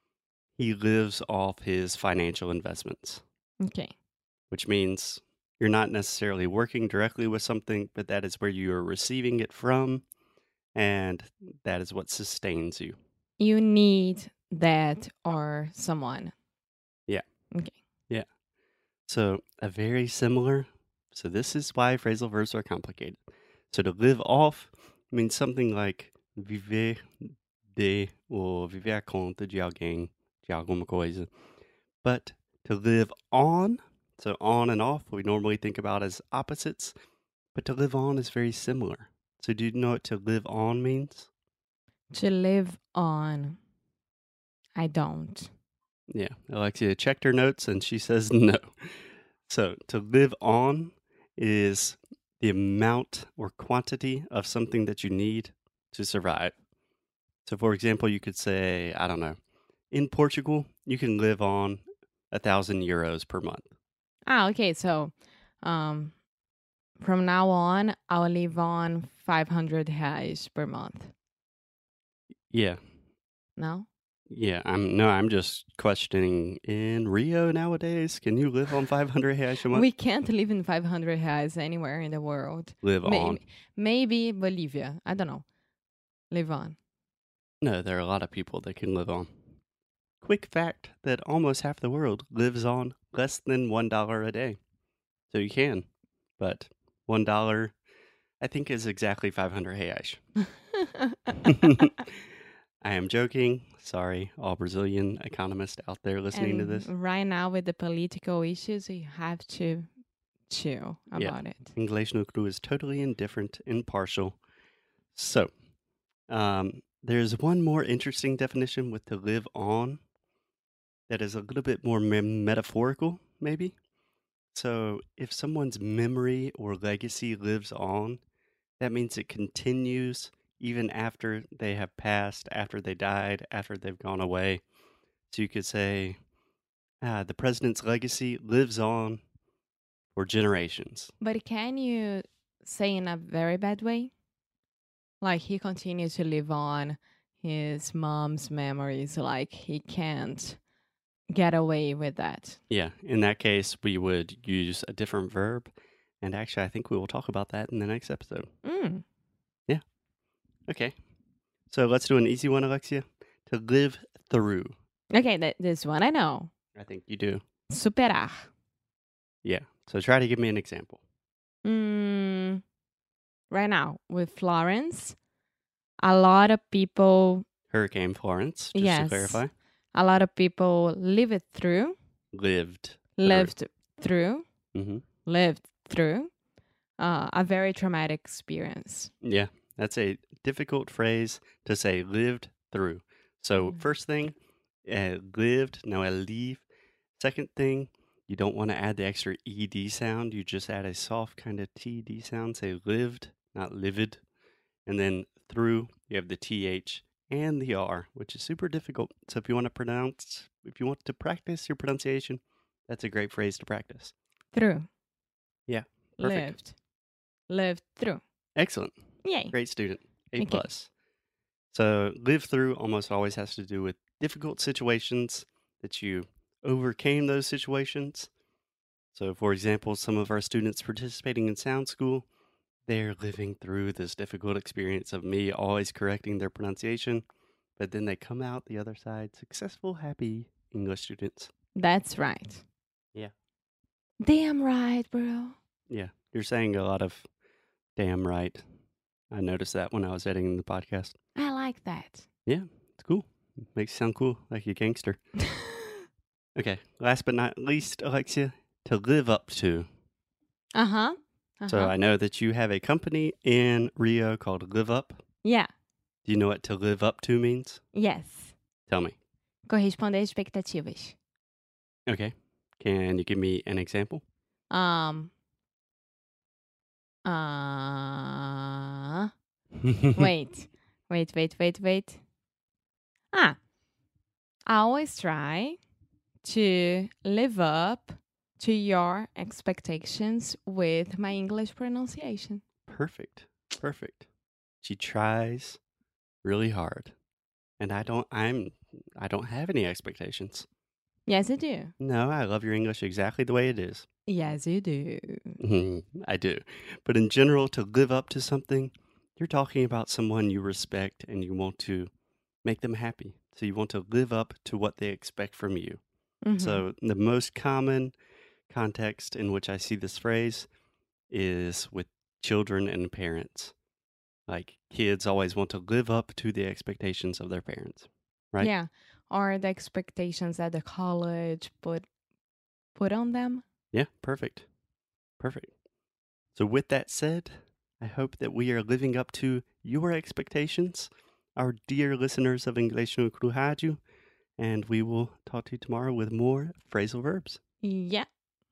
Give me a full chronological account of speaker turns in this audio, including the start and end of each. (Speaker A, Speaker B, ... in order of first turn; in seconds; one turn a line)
Speaker A: 0.6-3.2
Speaker B: 3.6-3.9
Speaker A: 4.5-10.0
Speaker A: 10.7-13.0
Speaker B: 13.4-16.3
Speaker A: 19.1-23.2
Speaker A: 23.7-31.3
Speaker A: 32.0-36.9
Speaker A: 37.5-41.3
Speaker B: 42.1-43.6
Speaker B: 44.8-45.5
Speaker A: 46.1-56.5
Speaker A: 57.4-59.4
Speaker A: 59.9-63.7
Speaker B: 64.3-66.1
Speaker B: 67.0-71.1
Speaker A: 72.5-72.8
Speaker B: 73.6-73.9
Speaker A: 74.3-79.8
Speaker B: 79.7-85.4
Speaker A: 82.8-83.4
Speaker B: 86.3-86.8
Speaker A: 87.6-89.3
Speaker A: 90.2-94.6
Speaker A: 95.3-95.9
Speaker A: 96.4-97.7
Speaker A: 98.4-100.2
Speaker B: 100.7-101.4
Speaker A: 101.5-101.9
Speaker A: 102.8-106.9
Speaker B: 106.3-109.9
Speaker B: 110.5-111.7
Speaker A: 111.1-114.4
Speaker A: 115.1-115.5
Speaker A: 116.3-120.0
Speaker A: 121.1-123.7
Speaker A: 124.5-128.2
Speaker A: 128.8-134.6
Speaker A: 135.3-136.2
Speaker A: 137.0-139.2
Speaker A: 140.1-141.1
Speaker B: 141.2-144.1
Speaker B: 145.2-150.6
Speaker B: 151.3-152.6
Speaker A: 152.7-158.5
Speaker B: 158.6-159.0
Speaker A: 160.7-160.9
Speaker A: 161.7-164.7
Speaker B: 165.1-166.5
Speaker A: 166.7-167.4
Speaker B: 167.7-168.5
Speaker A: 169.4-171.0
Speaker B: 171.6-172.6
Speaker B: 173.5-175.2
Speaker B: 176.0-177.4
Speaker A: 177.7-179.5
Speaker B: 178.7-181.9
Speaker A: 182.3-183.5
Speaker B: 183.2-184.4
Speaker A: 184.7-185.0
Speaker B: 185.2-186.3
Speaker B: 187.0-189.1
Speaker A: 189.2-196.6
Speaker B: 193.6-193.8
Speaker A: 197.2-204.2
Speaker A: 204.9-214.1
Speaker B: 214.5-214.9
Speaker A: 215.7-216.5
Speaker B: 216.2-216.7
Speaker B: 217.5-218.2
Speaker A: 218.6-218.9
Speaker B: 219.2-219.5
Speaker A: 219.5-220.9
Speaker B: 220.4-220.6
Speaker A: 221.7-228.3
Speaker A: 229.1-232.2
Speaker A: 232.8-237.2
Speaker A: 237.8-241.5
Speaker B: 241.7-242.6
Speaker B: 244.2-245.5
Speaker A: 245.9-247.3
Speaker A: 248.0-248.6
Speaker A: 249.3-251.1
Speaker B: 251.3-252.2
Speaker A: 252.4-255.2
Speaker B: 255.5-255.8
Speaker A: 256.5-259.9
Speaker B: 260.7-261.9
Speaker A: 261.7-265.2
Speaker B: 265.4-265.7
Speaker A: 266.2-267.8
Speaker B: 267.9-268.5
Speaker A: 268.9-269.1
Speaker B: 269.7-271.1
Speaker A: 272.1-274.2
Speaker B: 274.7-275.3
Speaker B: 277.2-279.3
Speaker A: 279.9-280.2
Speaker B: 280.1-282.2
Speaker B: 284.7-285.8
Speaker B: 286.4-292.6
Speaker A: 292.9-294.2
Speaker A: 294.8-295.8
Speaker A: 296.4-297.1
Speaker A: 297.8-300.6
Speaker B: 301.3-301.9
Speaker A: 302.0-304.1
Speaker B: 304.3-305.6
Speaker A: 305.6-312.1
Speaker A: 312.6-316.0
Speaker B: 316.4-316.8
Speaker A: 316.6-318.1
Speaker A: 318.7-320.7
Speaker A: 321.3-323.7
Speaker A: 324.5-328.7
Speaker B: 328.6-332.0
Speaker B: 332.9-333.6
Speaker A: 333.9-334.6
Speaker A: 335.4-335.7
Speaker A: 336.5-344.0
Speaker A: 344.6-347.6
Speaker B: 347.8-348.3